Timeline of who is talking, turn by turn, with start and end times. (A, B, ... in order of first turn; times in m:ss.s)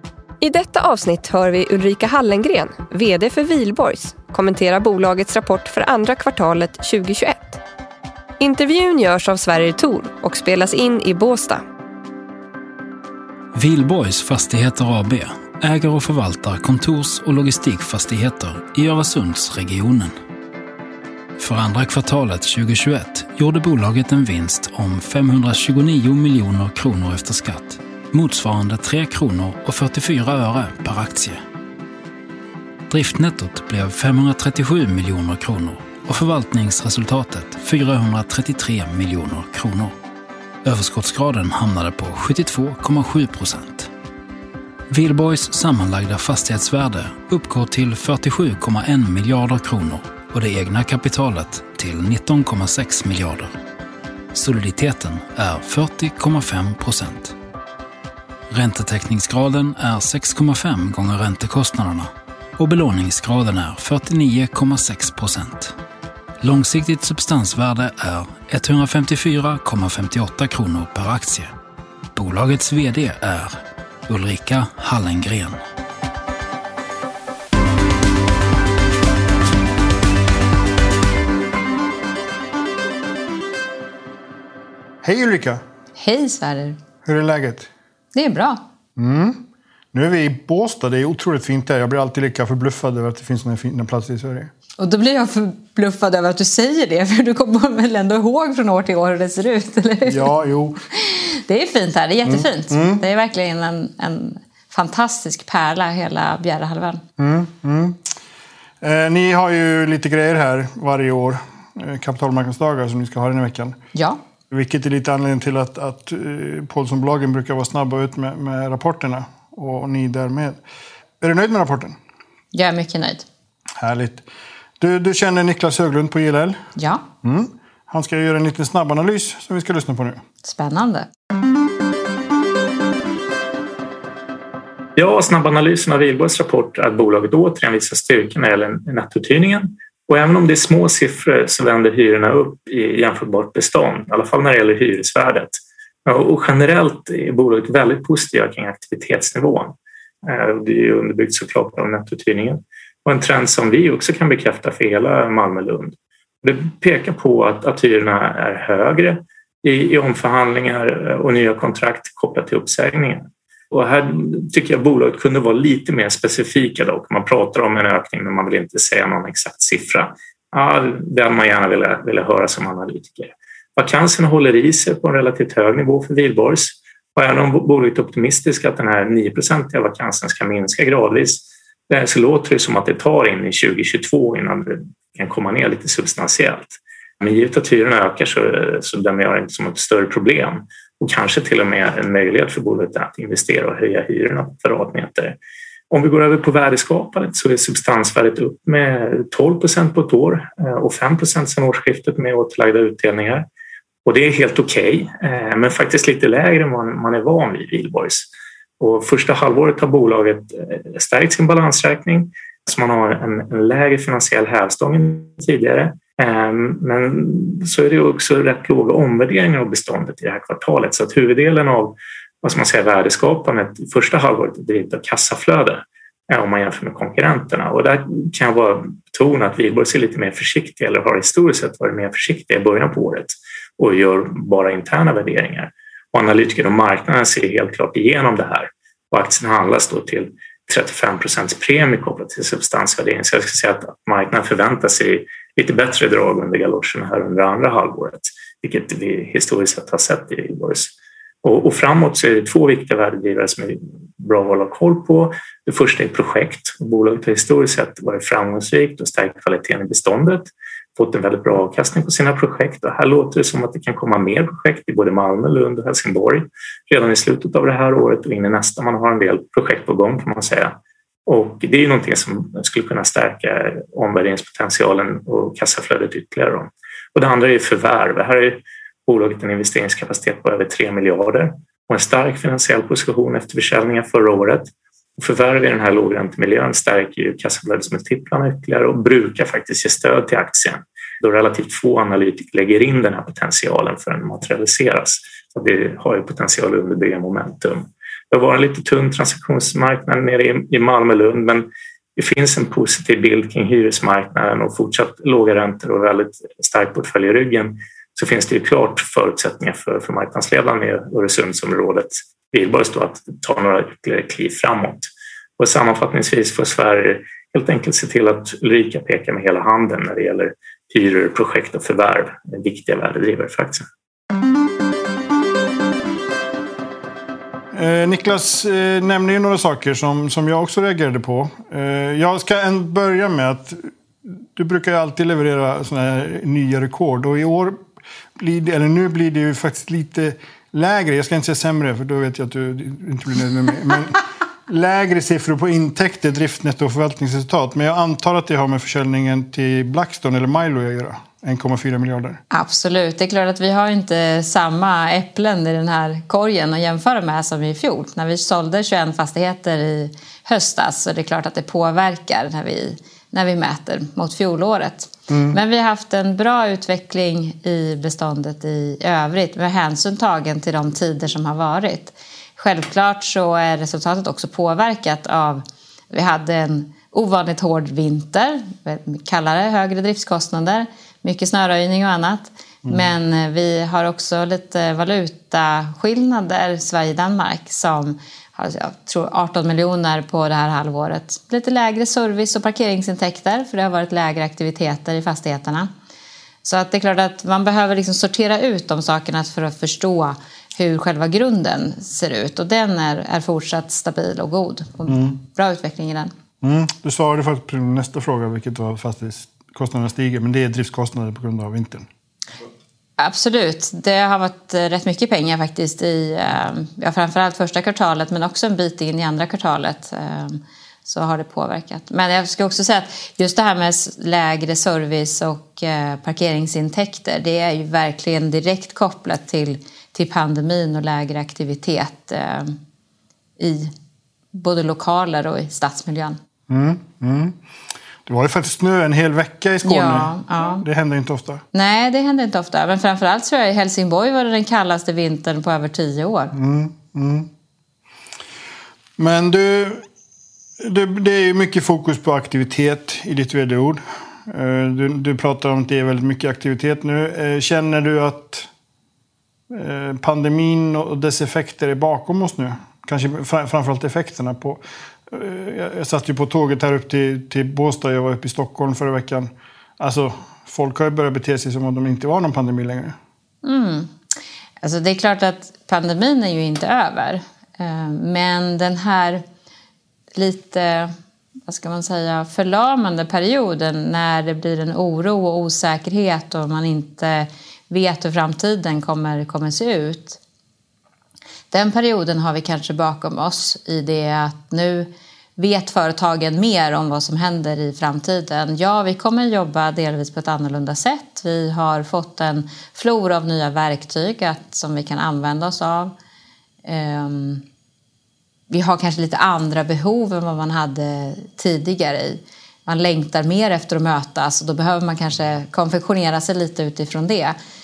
0:00.4-0:07.6 A
0:08.4-0:11.6 A
0:13.5-0:20.1 B
0:21.4-0:31.4 B
0:32.9-0:39.9 B
0:40.6-0:43.9 B
0:44.9-0:53.5 B
0:54.3-0:57.3 B
0:58.5-1:05.7 B
1:06.4-1:11.5 B
1:12.1-1:15.6 B
1:25.0-1:25.6 C
1:26.0-1:26.8 D
1:27.0-1:27.7 C
1:28.1-1:28.6 D
1:29.0-1:29.4 C
1:29.9-1:34.5 C
1:34.8-1:40.3 D
1:40.0-1:40.8 C
1:40.9-1:47.0 D
1:42.2-1:43.0 C
1:47.2-1:48.1 C
1:48.8-1:53.8 C
1:54.5-2:00.6 C
2:01.2-2:02.0 C
2:02.5-2:03.2 D
2:03.8-2:04.2 C
2:04.8-2:06.6 C
2:06.8-2:07.0 D
2:07.2-2:10.2 C
2:10.4-2:11.1 D
2:15.0-3:15.4 E
3:15.9-3:23.4 E
3:24.0-3:28.3 E
3:28.8-5:23.8 E
5:27.7-5:37.8 C
5:38.4-5:52.4 C
5:52.5-6:35.9 D
6:05.3-6:05.6 C
6:36.6-6:46.3 D
6:45.1-6:45.4 C
6:46.6-6:52.1 C
6:53.2-7:12.8 D
7:13.6-7:13.9 D
7:14.5-7:16.4 D
7:16.7-7:17.6 C
7:18.2-7:21.6 C
7:19.8-7:20.8 D
7:21.7-7:26.5 D
7:26.5-7:27.5 C
7:29.2-7:30.0 C
7:30.8-7:38.7 C
7:39.7-7:53.2 C
7:53.6-7:54.1 D
7:54.8-7:59.4 D
8:00.3-8:01.1 D
8:01.7-8:10.4 D
8:11.7-8:26.1 D
8:26.8-8:27.6 D
8:28.7-8:37.6 D